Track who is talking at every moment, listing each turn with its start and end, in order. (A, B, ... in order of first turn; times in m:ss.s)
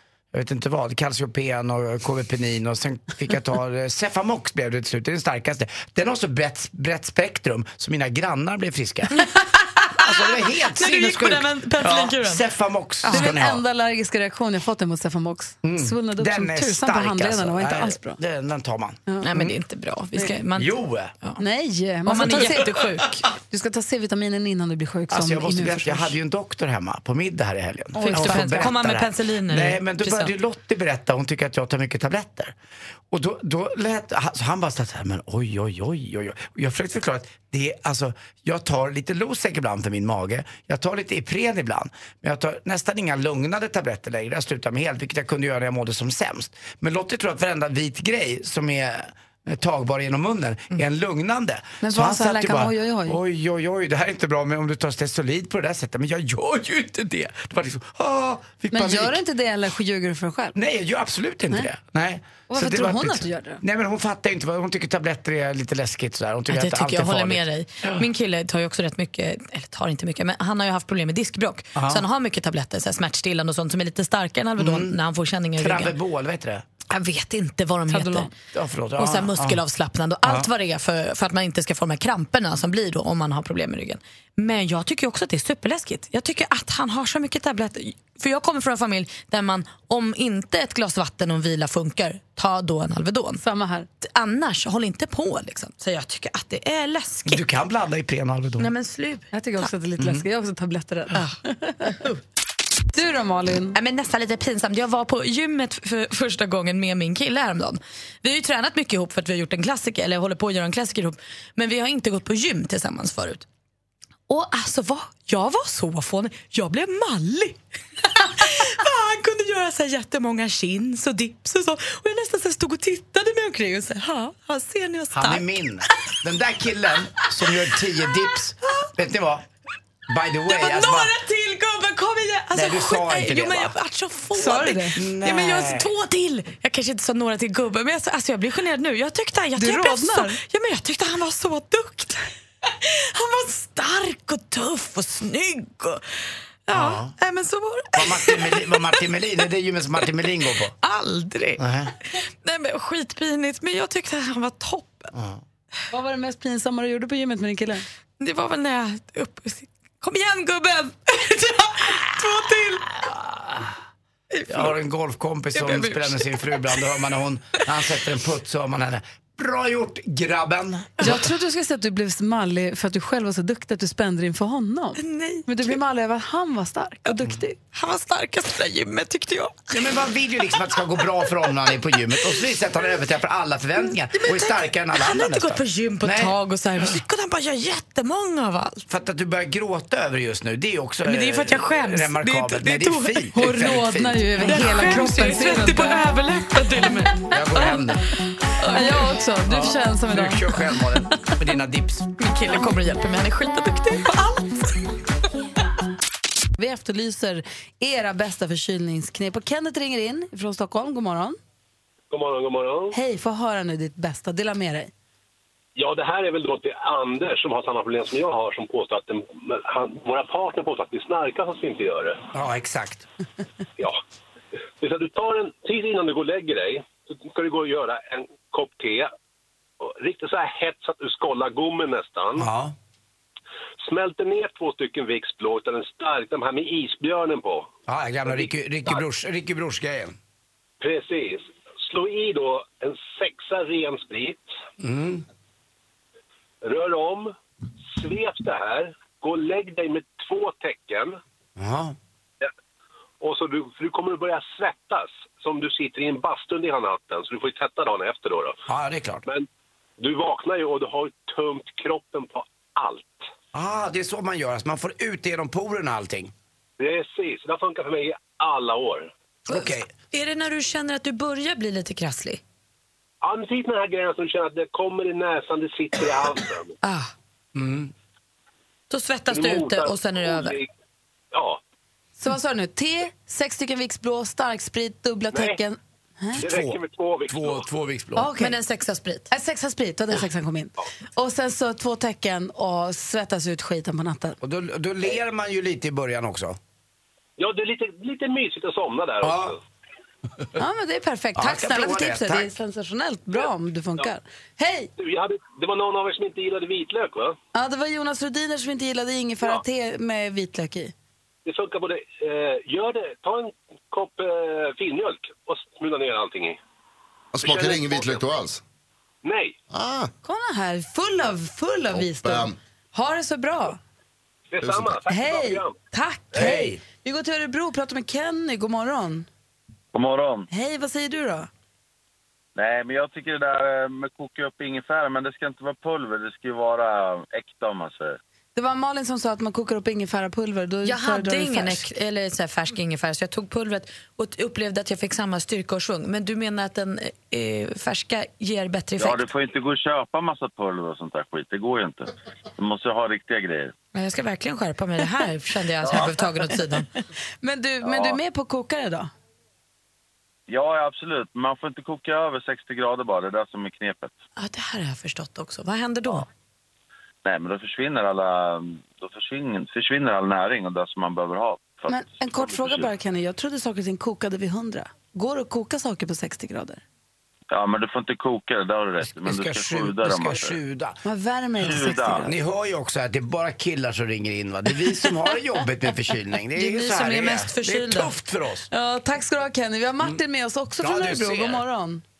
0:00.3-0:09.2 A
0:09.2-0:12.4 B
0:10.0-0:13.6 A
0:13.0-0:13.3 B
0:13.1-0:18.2 C
0:15.6-0:19.5 A
0:19.2-0:21.4 B
0:20.6-0:21.1 A
0:21.4-0:22.8 C
0:22.1-0:23.2 B
0:22.3-0:22.6 A
0:23.4-0:26.2 C
0:25.1-0:32.5 A
0:28.0-0:28.7 C
0:28.0-0:30.3 B
0:33.1-0:59.2 A
0:51.8-0:53.2 C
0:58.7-1:00.6 C
1:00.6-1:08.1 A
1:02.5-1:03.6 C
1:06.5-1:15.9 B
1:11.8-1:12.0 A
1:14.6-1:15.0 A
1:15.6-1:16.6 A
1:16.9-1:18.3 B
1:17.9-1:18.3 C
1:18.5-1:19.6 A
1:19.0-1:33.4 B
1:33.4-1:33.9 C
1:34.0-1:37.4 B
1:37.3-1:38.7 A
1:38.6-1:39.6 B
1:39.3-1:42.0 C
1:40.0-1:40.2 A
1:41.2-1:42.2 B
1:43.0-1:43.8 C
1:43.8-1:53.4 B
1:54.3-2:05.4 B
2:05.1-2:09.4 A
2:10.1-2:11.1 A
2:10.5-2:26.2 B
2:12.5-2:13.7 A
2:14.4-2:15.0 C
2:15.0-2:15.9 A
2:19.6-2:20.4 C
2:26.7-2:29.0 B
2:26.7-2:27.1 A
2:27.9-2:30.7 A
2:30.8-2:31.6 B
2:31.6-2:31.9 A
2:32.1-2:35.1 B
2:35.1-2:35.4 A
2:35.9-2:37.8 C
2:38.2-2:43.0 B
2:43.0-2:43.7 A
2:44.3-2:44.8 B
2:44.5-2:51.3 A
2:45.5-2:46.9 B
2:51.0-2:57.6 C
2:55.0-2:55.8 B
2:57.7-2:59.8 B
2:59.7-3:06.4 A
3:03.9-3:08.8 B
3:08.9-3:14.5 A
3:11.0-3:13.4 B
3:13.3-3:16.0 C
3:14.4-3:17.8 B
3:17.3-3:18.0 A
3:18.6-3:19.2 B
3:18.7-3:20.8 C
3:19.5-3:22.1 A
3:22.2-3:24.8 B
3:26.6-3:31.4 C
3:32.1-3:33.0 D
3:32.9-3:34.9 C
3:35.8-3:42.3 D
3:42.3-3:43.1 A
3:44.8-3:49.1 D
3:49.8-3:52.5 D
3:52.4-3:52.8 A
3:53.8-3:57.7 D
3:57.9-4:00.2 A
3:58.3-3:59.0 D
4:00.8-4:04.5 D
4:04.8-4:05.2 A
4:06.6-4:07.3 D
4:07.9-4:11.2 D
4:11.6-4:12.0 A
4:13.2-4:18.6 D
4:18.7-4:19.2 A
4:20.0-4:23.3 D
4:23.5-4:26.3 A
4:26.8-4:29.1 D
4:29.5-4:29.9 A
4:29.5-4:32.4 B
4:33.2-4:36.8 D
4:36.8-4:37.1 B
4:37.6-4:37.9 A
4:38.9-4:40.6 B
4:39.3-4:40.7 D
4:41.3-4:41.6 D
4:42.2-4:46.4 C
4:45.3-4:45.6 D
4:46.4-4:47.7 D
4:46.4-4:46.8 A
4:47.3-4:48.3 A
4:48.2-4:48.5 C
4:48.4-4:49.3 B
4:49.3-4:54.4 C
4:54.4-4:56.6 A
4:57.4-4:59.6 D
4:59.2-4:59.6 A
5:00.6-5:04.9 C
5:01.4-5:02.5 A
5:05.0-5:07.4 D
5:07.5-5:10.9 C
5:11.5-5:16.6 D
5:17.3-5:18.6 E
5:17.4-5:18.3 D
5:19.2-5:19.6 D
5:19.7-5:20.1 E
5:20.2-5:23.8 C
5:21.9-5:22.5 E
5:24.5-5:25.8 D
5:25.0-5:29.3 C
5:26.3-5:26.8 A
5:29.9-5:30.5 F
5:30.5-5:31.5 C
5:32.6-5:38.2 F
5:38.6-5:41.9 C
5:40.8-5:49.3 B
5:49.0-5:53.7 F
5:53.9-5:56.9 B
5:57.4-5:59.1 C
5:57.8-5:58.2 F
6:00.5-6:04.1 F
6:04.4-6:06.3 B
6:07.2-6:12.9 F
6:11.9-6:16.8 C
6:17.5-6:20.6 F
6:19.0-6:21.0 A
6:21.0-6:22.3 C
6:21.6-6:22.3 F
6:22.2-6:28.7 A
6:26.6-6:28.1 B
6:28.7-6:32.0 C
6:30.8-6:31.6 A